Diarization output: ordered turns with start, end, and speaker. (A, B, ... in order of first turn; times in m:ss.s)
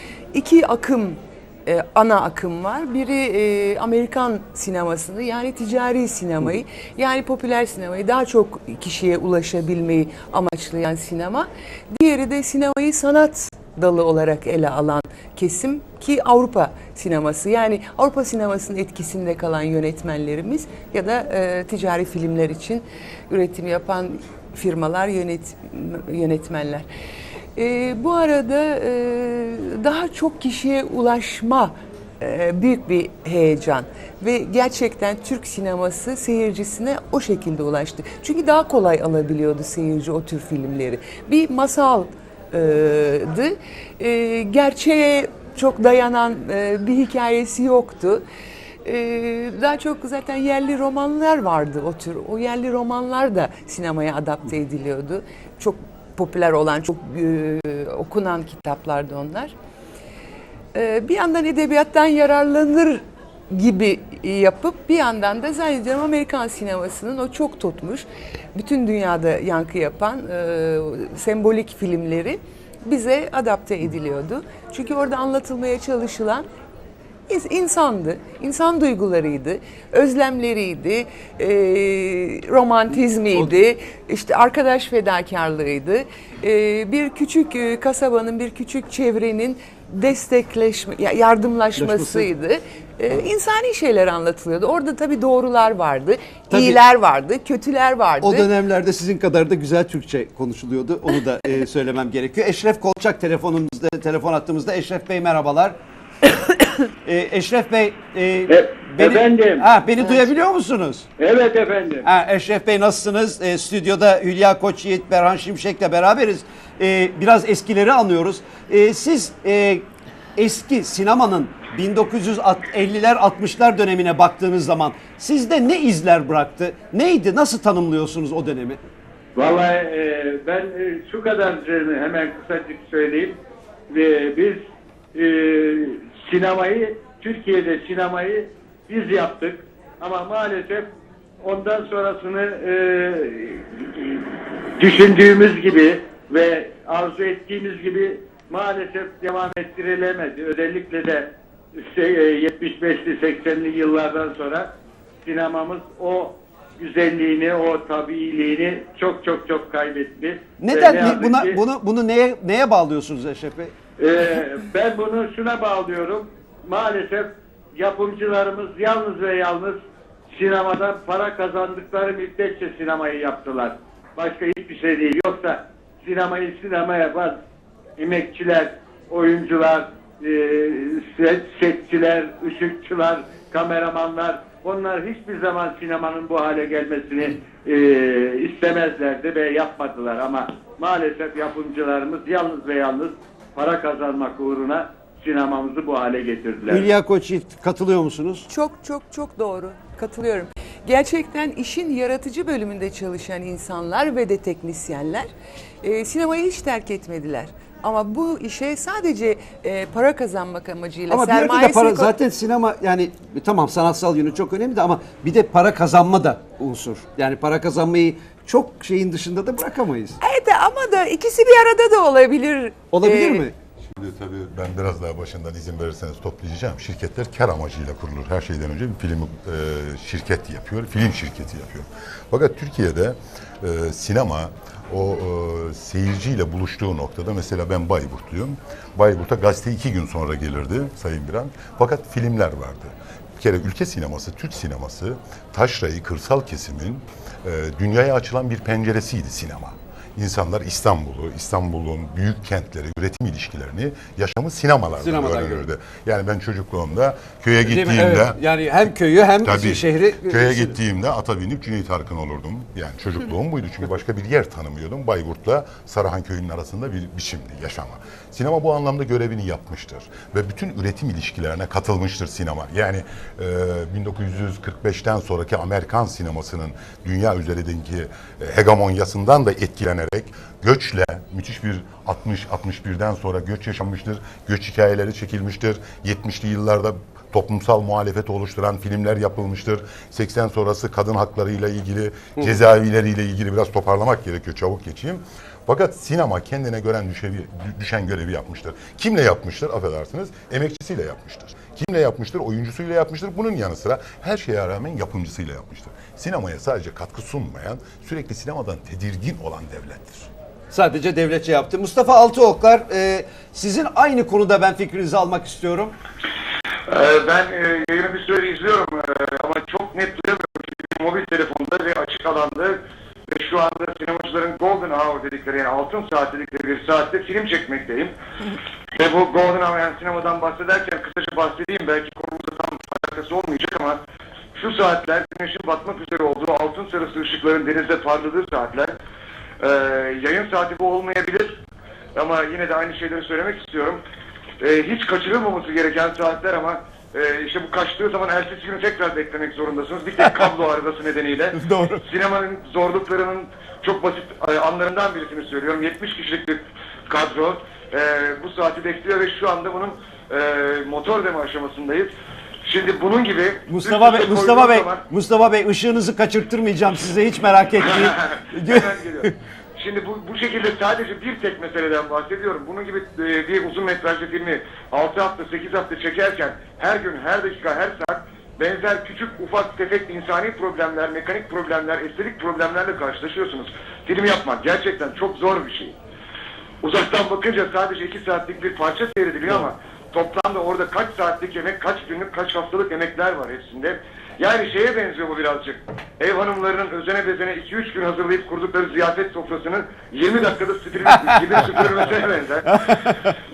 0:00.3-0:26.9 A
0:27.6-0:48.2 A
0:48.8-0:59.5 A
1:00.7-1:16.5 A
1:17.3-1:38.5 A
1:31.8-1:32.3 B
1:36.5-1:36.8 B
1:38.2-1:45.8 B
1:47.0-1:51.1 B
1:48.5-1:50.2 C
1:51.2-1:52.1 C
1:52.0-2:08.8 B
2:09.4-2:14.6 C
2:15.1-2:20.9 C
2:21.4-2:34.7 C
2:35.2-2:41.6 C
2:40.6-2:43.7 B
2:44.0-2:49.8 C
2:50.3-2:57.4 C
2:58.0-3:16.9 C
3:16.7-3:18.5 B
3:18.5-3:25.3 A
3:25.8-3:32.1 A
3:31.1-3:40.2 B
3:40.2-3:43.5 A
3:42.9-3:43.6 B
3:43.8-4:18.4 D
4:15.0-4:15.7 B
4:17.6-4:20.8 B
4:19.4-5:10.3 D
5:10.7-5:16.0 B
5:16.9-5:28.1 E
5:29.0-5:34.0 E
5:34.6-5:39.0 E
5:39.6-5:41.6 E
5:42.2-5:44.0 E
5:44.6-6:02.1 E
5:50.2-5:50.5 B
5:51.5-5:52.0 B
6:02.6-6:05.0 E
6:03.7-6:09.4 B
6:07.8-6:26.0 E
6:26.8-6:42.7 E
6:41.1-6:42.0 B
6:42.6-6:43.4 B